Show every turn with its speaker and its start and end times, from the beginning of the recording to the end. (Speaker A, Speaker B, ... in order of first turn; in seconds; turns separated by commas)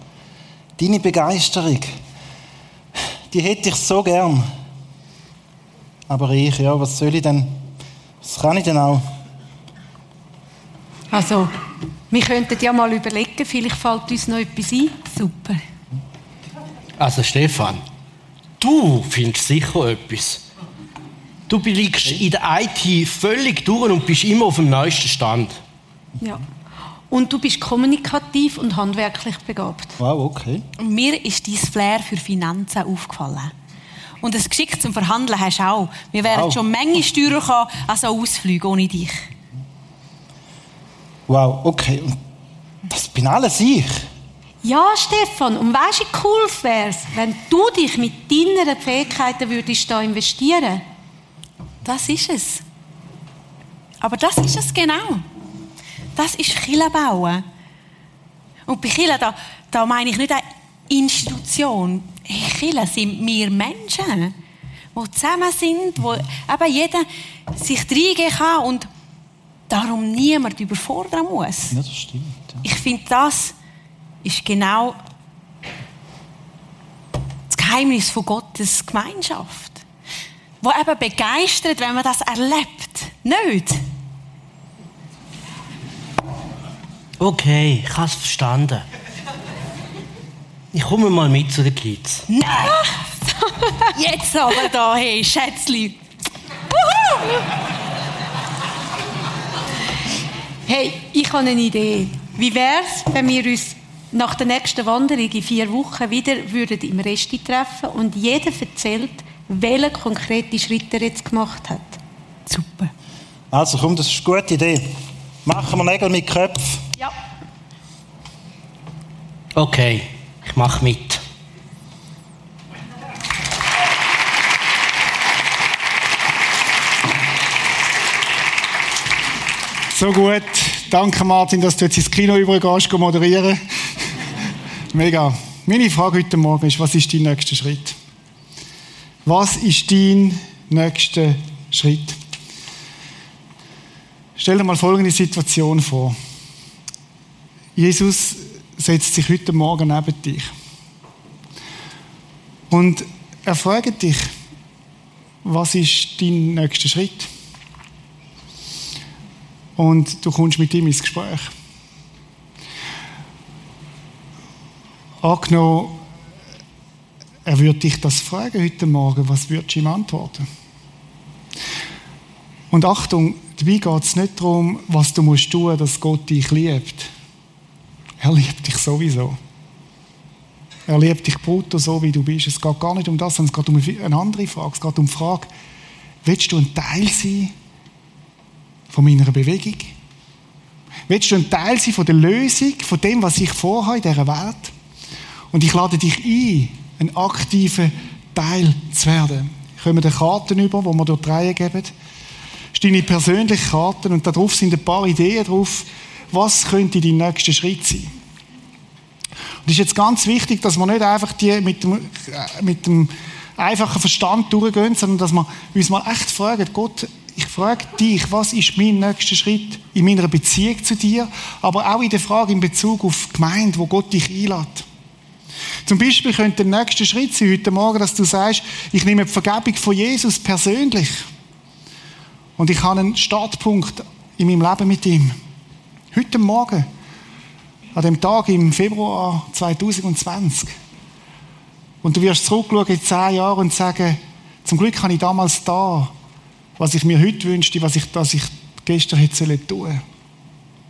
Speaker A: 0.8-1.9, Speaker A: 3.3-4.5, Speaker A: 6.1-7.6, Speaker A: 8.2-9.1, Speaker B: 11.1-11.5, Speaker B: 12.1-15.1, Speaker C: 15.1-15.6, Speaker D: 17.0-17.8, Speaker D: 18.6-20.4, Speaker D: 21.5-25.6, Speaker B: 27.1-30.0, Speaker A: 30.0-30.6, Speaker C: 30.8-33.5, Speaker C: 34.2-39.3, Speaker A: 36.3-36.6, Speaker A: 41.3-42.2, Speaker A: 42.9-44.1, Speaker B: 44.6-50.8, Speaker C: 51.8-52.6, Speaker C: 54.0-55.2, Speaker C: 56.2-57.4, Speaker C: 58.7-64.3, Speaker C: 65.0-68.9, Speaker C: 69.7-71.8, Speaker A: 71.7-72.6, Speaker C: 72.6-73.5, Speaker C: 74.2-75.0, Speaker C: 77.5-79.8, Speaker C: 80.6-83.8, Speaker D: 87.2-88.8, Speaker D: 90.7-92.3, Speaker C: 92.3-93.0, Speaker B: 93.5-93.8, Speaker C: 93.9-96.0, Speaker B: 100.7-112.0, Speaker C: 112.5-112.9, Speaker A: 113.5-116.8, Speaker D: 119.5-121.2, Speaker E: 129.9-133.6, Speaker E: 134.9-138.0, Speaker E: 139.2-142.2, Speaker E: 144.4-146.2, Speaker E: 147.8-150.5, Speaker E: 152.7-154.3, Speaker E: 155.4-157.3, Speaker E: 159.8-161.5, Speaker E: 165.2-166.0, Speaker E: 167.5-170.5, Speaker E: 172.7-177.1, Speaker E: 178.2-179.4, Speaker E: 180.9-185.5, Speaker E: 186.2-187.5, Speaker E: 188.9-189.9, Speaker E: 191.1-194.7, Speaker E: 195.5-201.9, Speaker E: 202.8-208.1, Speaker E: 209.7-224.9, Speaker E: 225.9-231.3, Speaker E: 232.6-235.4, Speaker E: 236.1-236.9, Speaker E: 237.9-240.7, Speaker E: 242.0-246.1, Speaker E: 246.8-250.0